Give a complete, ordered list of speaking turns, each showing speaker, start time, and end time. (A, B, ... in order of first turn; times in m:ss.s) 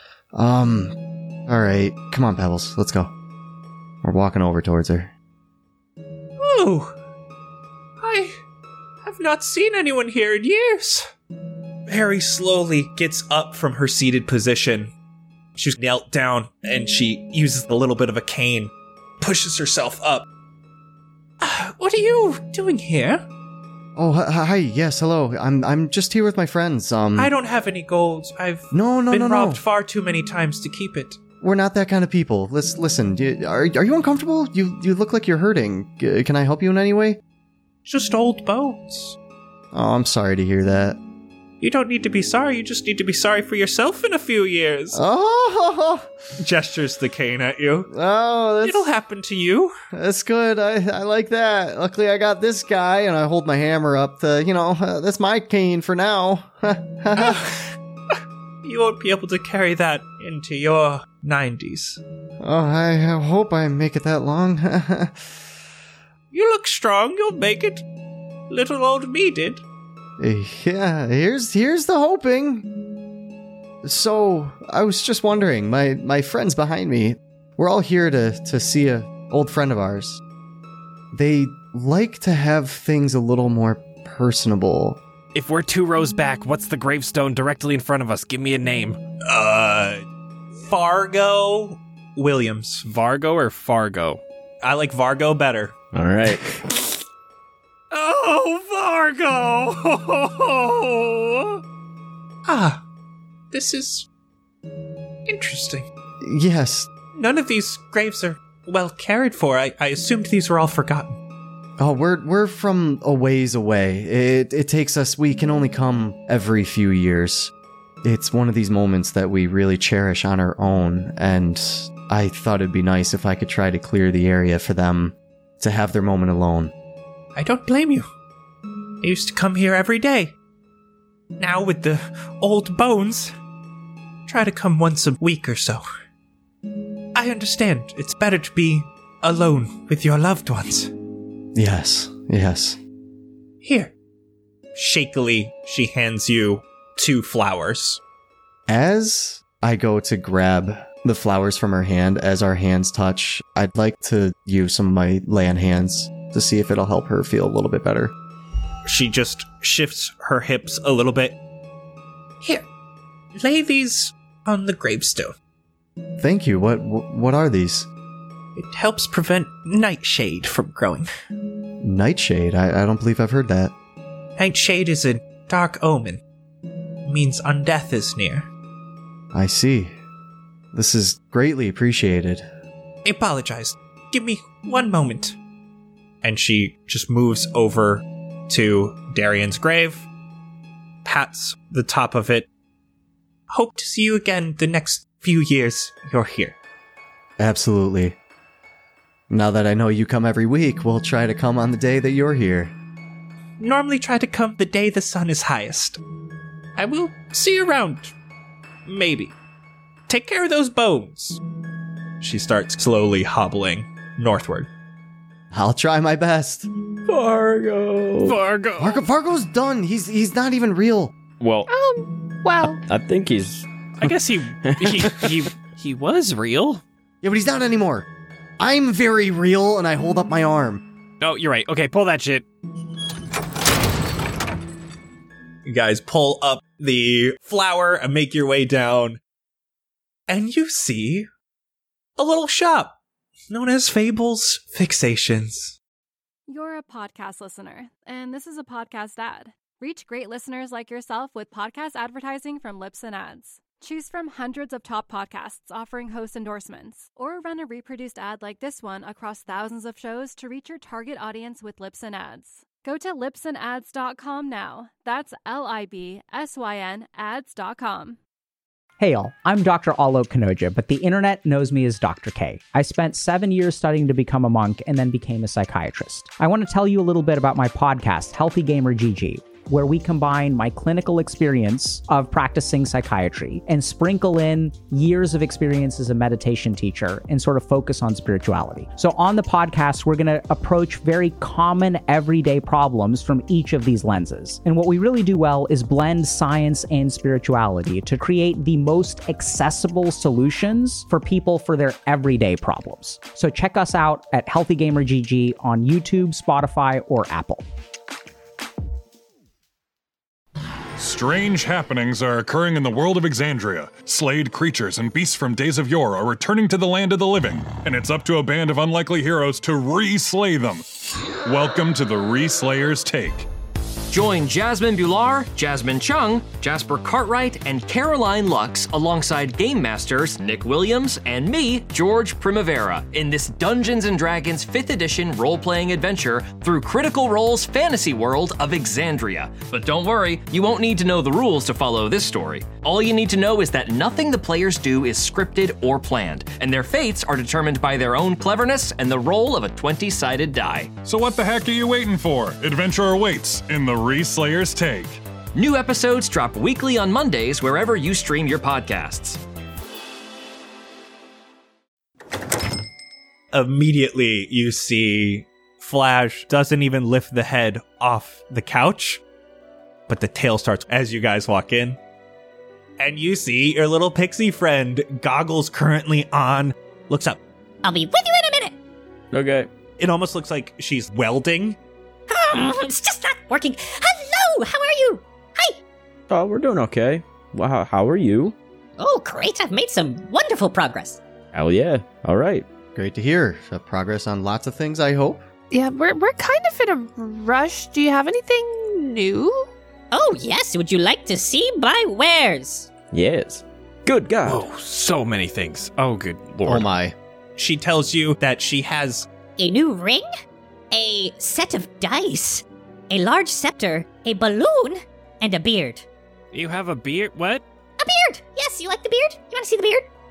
0:00.3-0:03.1 A
0:04.0-0:05.1 A
0:06.4-0:07.0 B
0:08.0-0:08.4 B
0:09.0-0:11.1 B
0:11.9-0:14.9 B
0:15.6-0:20.3 B
0:21.4-0:23.3 B
0:24.0-0:27.3 A
0:27.2-0:31.2 B
0:28.7-0:29.6 A
0:31.4-0:37.2 A
0:37.8-0:39.2 B
0:39.7-0:41.0 A
0:41.6-0:45.0 B
0:44.9-0:46.1 A
0:46.4-0:47.9 B
0:47.9-0:48.9 A
0:48.6-0:49.8 B
0:49.9-0:57.4 A
0:57.2-0:57.6 B
0:58.6-1:02.0 B
1:02.4-1:05.5 A
1:06.3-1:07.8 B
1:08.5-1:09.6 B
1:10.2-1:12.7 A
1:13.8-1:20.2 A
1:21.1-1:25.0 A
1:25.4-1:29.0 C
1:29.2-1:30.0 B
1:30.6-1:32.9 B
1:32.8-1:34.2 C
1:34.6-1:35.7 B
1:35.9-1:36.6 D
1:37.9-1:41.6 C
1:42.5-1:42.8 B
1:43.5-1:44.1 B
1:45.3-1:45.9 B
1:46.2-1:46.9 A
1:47.2-1:51.2 B
1:51.8-1:57.5 A
1:58.0-2:06.7 A
2:07.4-2:08.1 B
2:09.0-2:10.3 B
2:11.4-2:13.3 B
2:14.3-2:15.8 B
2:17.2-2:20.9 B
2:21.6-2:22.8 A
2:23.6-2:23.9 B
2:24.8-2:28.0 B
2:28.7-2:38.1 A
2:38.9-2:41.4 B
2:43.4-2:45.4 B
2:46.2-2:47.9 A
2:48.6-2:51.1 B
2:51.8-2:53.7 A
2:54.4-2:56.2 B
2:57.0-2:58.5 B
2:59.3-3:00.0 A
3:00.7-3:02.5 A
3:03.0-3:05.4 B
3:06.2-3:10.1 B
3:11.0-3:12.5 B
3:13.5-3:16.6 B
3:17.4-3:18.2 A
3:19.3-3:22.7 A
3:23.6-3:26.0 B
3:26.8-3:28.1 B
3:28.9-3:29.4 B
3:30.1-3:31.4 B
3:32.2-3:34.7 B
3:35.5-3:36.7 A
3:37.1-3:38.4 D
3:38.2-3:39.0 C
3:38.8-3:41.1 A
3:41.4-3:41.7 D
3:41.7-3:42.8 E
3:42.9-3:45.5 D
3:44.0-3:46.8 C
3:47.2-3:48.1 A
3:48.6-3:50.8 A
3:51.2-3:52.4 C
3:55.6-3:59.2 B
4:00.3-4:01.3 B
4:02.2-4:03.0 B
4:03.5-4:05.8 B
4:06.5-4:28.2 F
4:29.0-5:07.6 G
5:11.0-5:20.8 H
5:21.4-5:23.5 H
5:24.1-5:51.0 I
5:51.0-5:55.2 H
5:55.6-5:59.4 I
6:03.5-6:09.2 B
6:10.1-6:12.0 B
6:13.0-6:17.4 B
6:17.8-6:18.8 J
6:19.3-6:19.7 D
6:20.0-6:21.8 B
6:22.3-6:25.8 J
6:26.3-6:28.6 D
6:29.0-6:31.2 J
6:31.5-6:32.7 D
6:33.0-6:35.4 A
6:35.7-6:39.7 E
6:40.1-6:42.9 J
6:43.1-6:44.6 D
6:44.4-6:46.9 C
6:46.6-6:47.2 A
6:47.6-6:49.3 B
6:49.6-6:50.3 J
6:50.9-6:56.0 J
6:56.5-6:57.6 C
6:58.0-7:00.1 J